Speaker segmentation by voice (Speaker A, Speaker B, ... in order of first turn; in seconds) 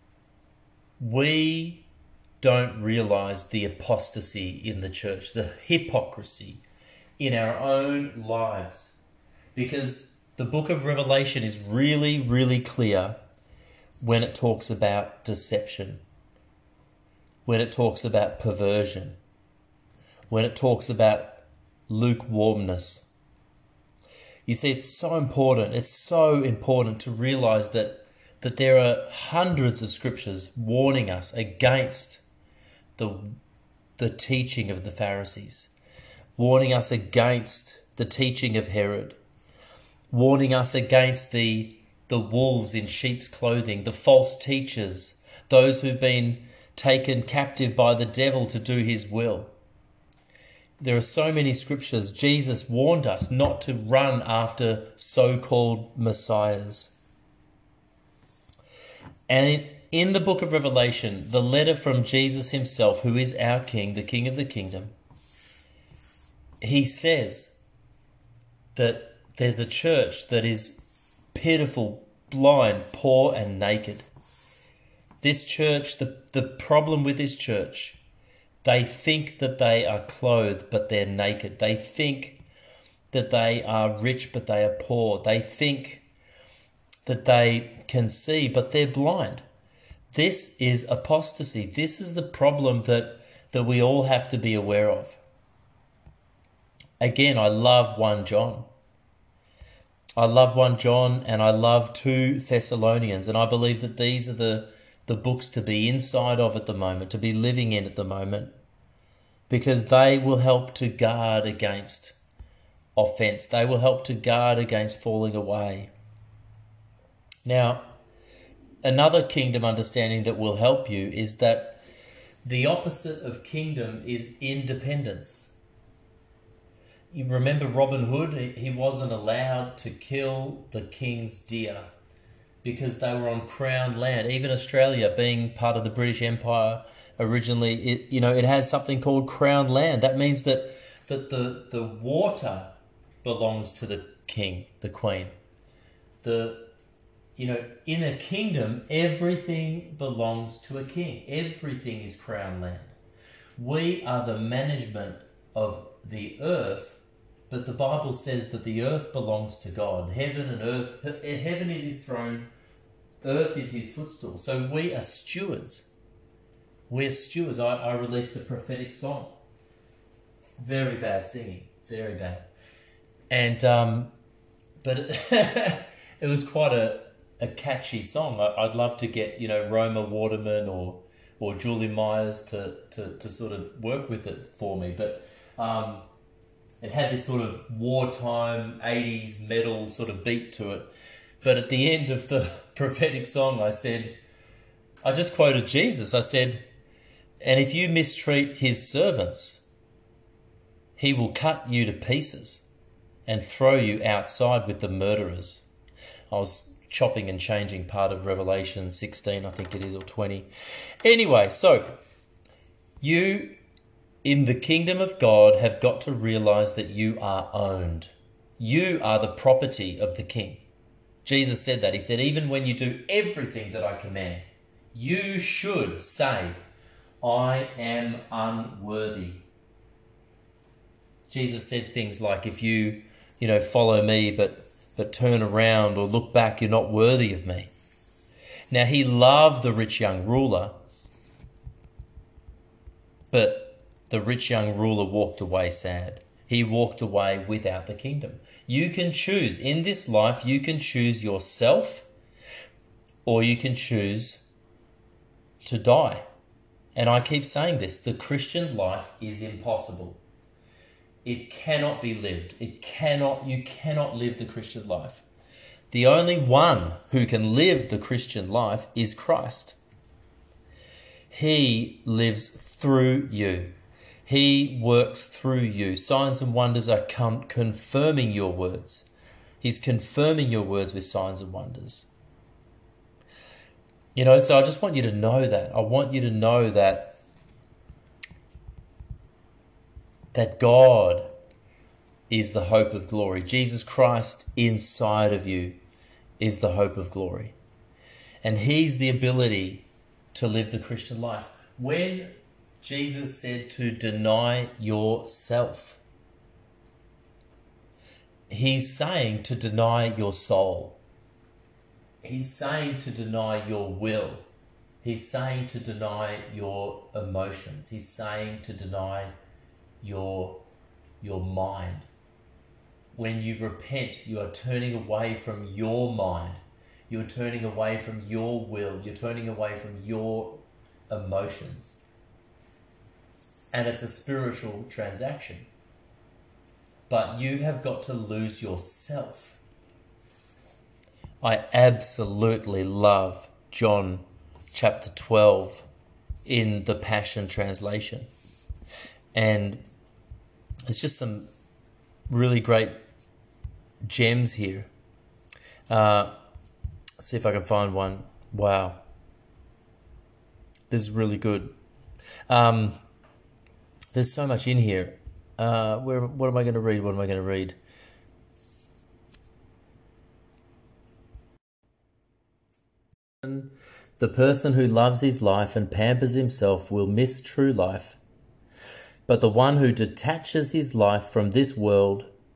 Speaker A: 1.0-1.9, 2.4-6.6, 7.2-9.0, 9.6-13.2, 14.0-16.0, 17.5-19.2, 20.3-23.1, 24.5-32.2, 33.0-33.4, 34.0-35.7, 36.4-39.2, 40.1-49.5, 50.8-56.9, 59.3-64.9, 66.6-67.6, 68.8-70.8, 71.3-74.1, 75.2-78.0, 78.6-82.4, 83.1-86.1, 87.1-89.4, 90.1-95.2, 97.0-98.7, 100.2-108.5, 109.5-112.2, 113.0-115.9, 117.5-117.8, 118.8-121.8, 122.4-125.5, 127.1-131.9, 132.6-142.7, 143.2-145.3, 146.2-146.7, 147.4-152.9, 153.6-162.5, 163.2-165.9, 166.9-169.3, 170.6-172.5, 173.3-174.1, 174.8-186.0, 186.8-190.9, 191.4-194.2, 195.0-196.7, 197.4-199.6, 201.0-202.6, 203.3-205.7, 206.3-210.5, 211.0-212.0, 213.0-213.6, 214.2-220.6, 221.2-226.6, 227.2-229.4, 231.3-237.7, 238.7-240.8, 243.3-252.1, 253.2-254.5, 255.6-256.2, 256.9-260.2, 261.2-265.2, 265.9-269.8, 271.3-273.8, 274.3-279.1, 279.6-282.1, 284.1-287.2, 290.3-291.3, 292.3-295.8, 296.4-297.6, 298.4-306.0, 308.5-311.0, 312.2-314.5, 315.0-319.3, 320.0-320.6, 321.2-322.1, 323.1-332.0, 333.7-335.7, 337.1-339.6, 341.4-345.9, 346.5-348.3, 349.3-349.8, 350.9-351.5, 352.3-353.0, 354.0-354.9, 355.9-356.3, 357.2-359.0, 360.9-361.8, 362.5-363.0, 364.1-367.8, 373.4-378.2, 379.3-382.3